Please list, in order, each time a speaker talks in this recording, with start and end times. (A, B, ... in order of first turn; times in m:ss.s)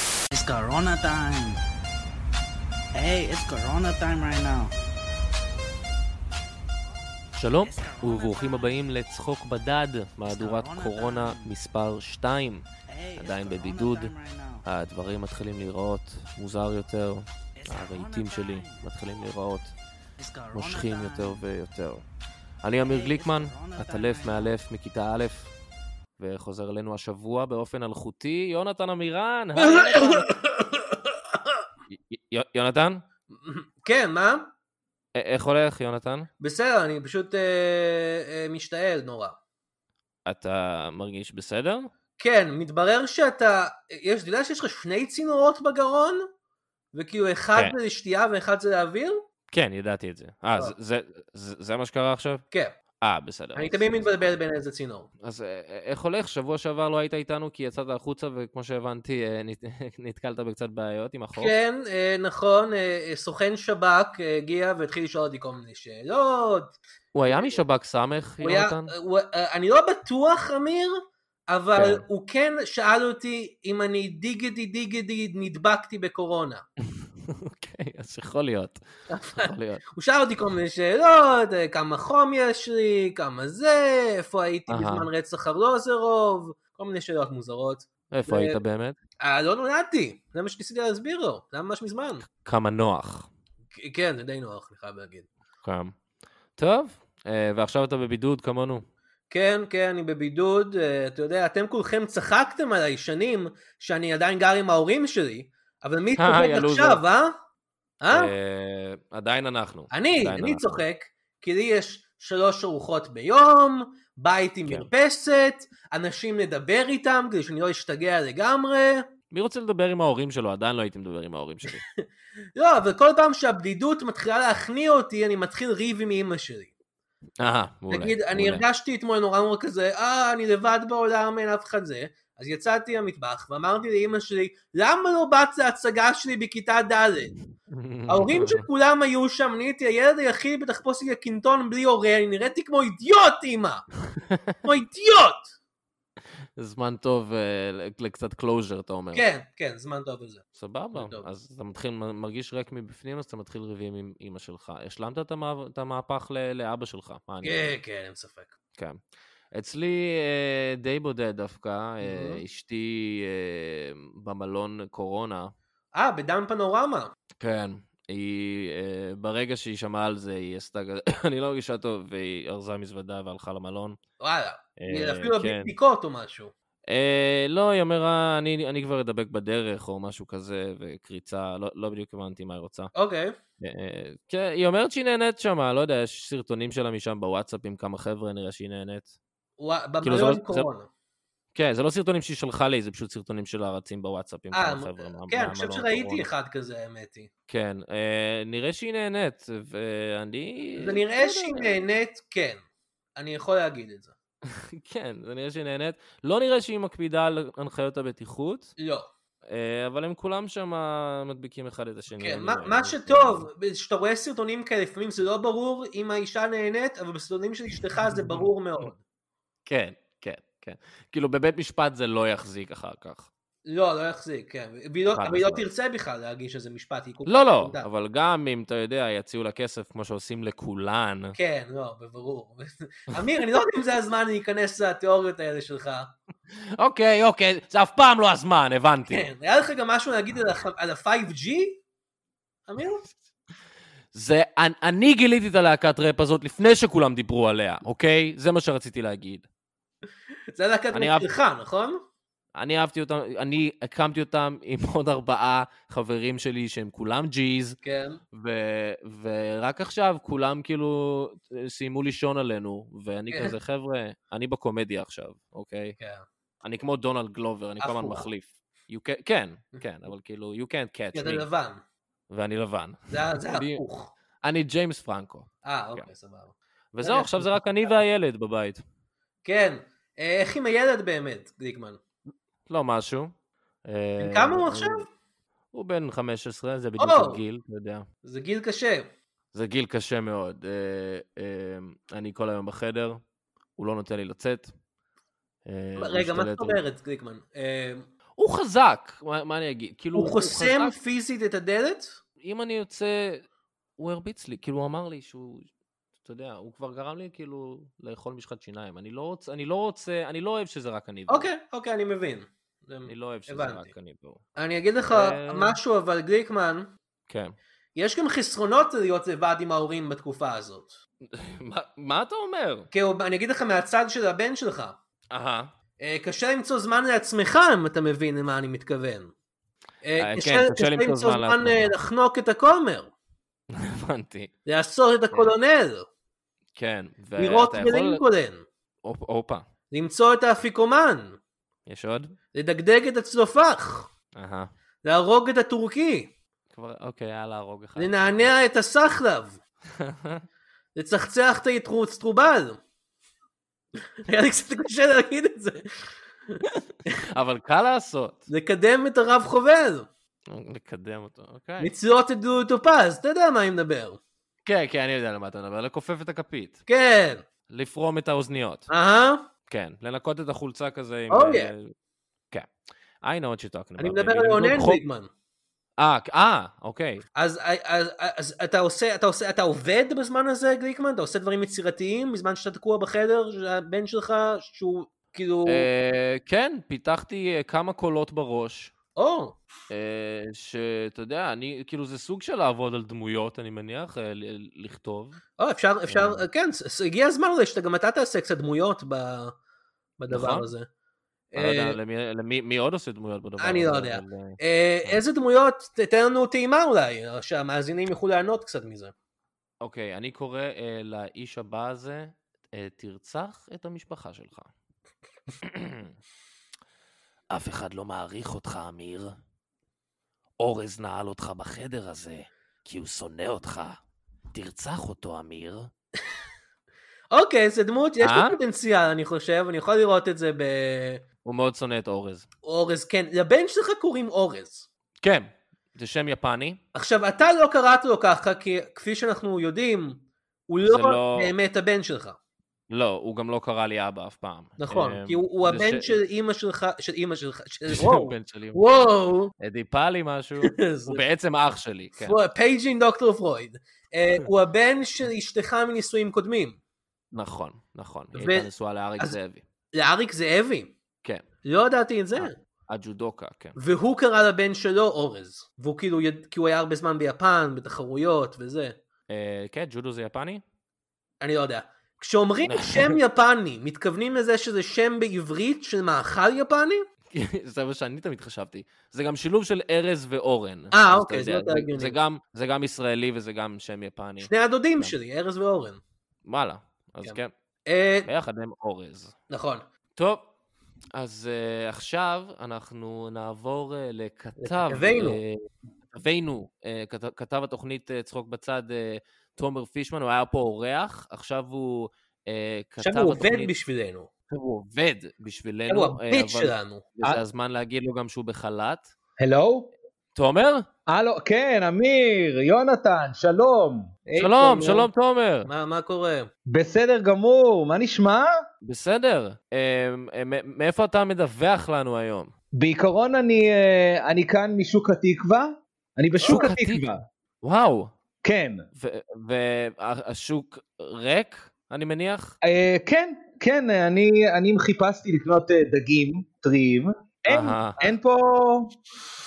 0:00.3-0:01.6 A
0:02.9-0:04.7 A
0:07.4-0:12.6 B
0:07.6-0:08.8 A
0:10.3-0:11.5 A
0:12.9-0:14.6 A
0:13.2-0:14.1 B
0:14.6-0:19.7 B
0:17.6-0:18.8 A
0:20.2-0:21.4 A
0:20.5-0:22.0 B
0:22.6-0:25.5 B
0:22.9-0:24.5 A
0:26.2-0:30.3 B
0:29.6-0:31.2 C
0:31.9-0:33.0 B
0:33.4-0:34.5 C
0:35.1-0:36.3 B
0:36.4-0:39.4 C
0:40.2-0:41.9 B
0:42.2-0:46.2 C
0:46.9-0:49.2 C
0:49.5-0:52.4 B
0:53.0-0:54.3 B
0:53.5-0:55.1 C
0:55.2-1:01.5 B
1:01.4-1:06.7 C
1:07.1-1:08.9 B
1:07.2-1:07.6 C
1:08.4-1:11.0 C
1:11.5-1:16.6 C
1:11.8-1:12.0 B
1:17.3-1:18.8 B
1:19.1-1:28.6 C
1:19.4-1:19.8 B
1:24.7-1:25.1 B
1:28.1-1:29.0 B
1:29.2-1:32.2 C
1:32.4-1:33.3 B
1:33.8-1:35.3 C
1:35.6-1:35.9 B
1:36.6-1:38.8 B
1:39.3-1:47.3 C
1:46.2-1:47.0 B
1:48.0-1:48.3 C
1:48.1-1:50.6 B
1:49.9-1:59.0 C
1:59.3-2:01.8 B
2:01.7-2:02.0 C
2:02.6-2:06.7 C
2:07.4-2:08.6 B
2:07.9-2:17.3 C
2:17.7-2:18.6 B
2:18.1-2:23.8 C
2:24.6-2:25.5 C
2:26.6-2:29.2 B
2:29.1-2:31.2 C
2:30.6-2:37.7 B
2:37.4-2:38.5 C
2:39.5-2:45.5 B
2:42.0-2:42.4 C
2:45.9-2:47.1 C
2:47.4-2:54.0 B
2:54.2-2:56.5 C
2:54.8-2:55.7 B
2:56.9-3:02.9 B
3:02.9-3:03.3 C
3:03.6-3:09.1 B
3:09.6-3:10.9 C
3:10.0-3:10.7 B
3:11.5-3:16.2 B
3:14.5-3:17.3 C
3:17.5-3:21.8 B
3:20.8-3:22.6 C
3:23.2-3:24.1 C
3:24.5-3:28.7 B
3:28.8-3:29.1 C
3:29.4-3:33.5 B
3:32.2-3:39.0 C
3:38.1-3:38.5 B
3:39.6-3:43.3 B
3:43.7-3:47.8 C
3:45.2-3:45.7 B
3:47.3-3:51.4 B
3:51.4-3:56.1 C
3:56.8-3:59.3 B
3:59.1-4:01.8 C
4:02.7-4:03.0 C
4:04.1-4:09.4 B
4:10.5-4:12.0 C
4:10.9-4:11.3 B
4:12.5-4:17.8 B
4:17.8-4:18.2 C
4:18.3-4:26.0 B
4:26.0-4:26.2 C
4:26.6-4:31.4 B
4:27.8-4:28.2 C
4:31.1-4:31.8 C
4:32.3-4:33.8 B
4:33.1-4:34.1 C
4:34.4-4:36.0 B
4:35.6-4:37.5 C
4:36.9-4:38.8 B
4:39.4-4:42.0 C
4:42.7-4:43.3 B
4:43.8-4:45.0 B
4:44.2-4:45.0 C
4:45.7-4:48.0 B
4:47.0-4:47.4 C
4:48.2-4:49.1 C
4:49.5-4:53.2 B
4:53.8-4:54.7 B
4:55.6-4:56.8 B
4:56.0-4:58.0 C
4:58.4-5:00.9 B
5:00.1-5:02.2 C
5:02.4-5:03.4 B
5:04.0-5:05.7 B
5:06.2-5:11.5 B
5:11.3-5:13.9 C
5:13.1-5:14.4 B
5:14.6-5:16.9 C
5:15.1-5:15.8 B
5:17.3-5:17.5 B
5:18.0-5:20.9 C
5:21.3-5:22.9 B
5:22.9-5:25.0 C
5:25.3-5:25.7 B
5:26.0-5:29.3 C
5:30.0-5:33.1 C
5:30.2-5:31.9 B
5:33.7-5:34.5 B
5:34.6-5:36.0 C
5:36.8-5:38.2 B
5:37.4-5:38.6 C
5:39.0-5:39.6 B
5:39.9-5:41.4 C
5:41.9-5:42.3 B
5:42.5-5:44.1 C
5:44.4-5:44.7 B
5:45.0-5:46.3 C
5:46.7-5:48.5 B
5:48.0-5:49.6 C
5:50.0-5:50.4 B
5:50.9-5:52.8 C
5:54.2-5:56.6 C
5:57.3-5:58.5 B
5:58.5-6:00.1 C
6:00.5-6:01.9 B
6:01.8-6:04.2 C
6:04.6-6:06.8 B
6:06.9-6:07.4 C
6:07.7-6:08.9 B
6:08.9-6:09.4 C
6:09.7-6:11.9 B
6:11.3-6:11.7 C
6:13.2-6:15.0 B
6:14.0-6:15.3 C
6:16.0-6:17.2 B
6:17.4-6:25.9 C
6:25.6-6:28.9 B
6:29.2-6:29.6 C
6:29.9-6:35.4 B
6:35.6-6:39.5 C
6:36.1-6:36.4 B
6:40.2-6:40.9 C
6:40.3-6:40.7 B
6:41.5-6:42.0 C
6:41.6-6:45.2 B
6:43.6-6:49.1 C
6:49.8-6:54.7 B
6:55.6-6:56.1 B
6:57.5-6:59.3 B
7:00.6-7:04.0 B
7:04.5-7:05.9 B
7:07.3-7:11.2 C
7:08.2-7:08.6 B
7:11.4-7:12.4 B
7:12.6-7:14.9 C
7:15.2-7:16.8 B
7:16.9-7:22.4 C
7:20.8-7:21.5 B
7:22.9-7:26.2 B
7:24.8-7:29.5 C
7:27.9-7:32.4 B
7:30.6-7:31.2 C
7:32.2-7:36.8 C
7:37.3-7:39.6 B
7:38.3-7:39.4 C
7:39.9-7:40.9 C
7:41.6-7:42.5 C
7:42.4-7:43.8 B
7:43.8-7:48.9 C
7:49.3-7:50.6 B
7:51.4-7:57.0 C
7:52.7-7:53.2 B
7:57.3-8:05.1 B
8:00.9-8:02.2 C
8:04.4-8:06.0 C
8:06.4-8:07.5 B
8:07.2-8:08.3 C
8:08.3-8:09.3 B
8:09.5-8:09.8 C
8:10.2-8:10.4 B
8:11.1-8:15.6 B
8:14.6-8:15.4 C
8:16.1-8:23.7 B
8:23.0-8:24.3 C
8:24.5-8:29.1 B
8:25.9-8:27.0 C
8:29.4-8:29.9 D
8:30.4-8:30.8 B
8:31.1-8:34.1 D
8:34.3-8:35.1 C
8:34.4-8:35.7 B
8:35.6-8:36.5 C
8:36.7-8:38.5 D
8:38.8-8:42.5 B
8:42.7-8:47.2 D
8:46.4-8:46.6 C
8:46.4-8:48.1 B
8:48.4-8:48.8 D
8:49.0-8:52.5 B
8:52.6-8:59.0 D
8:57.5-8:58.0 B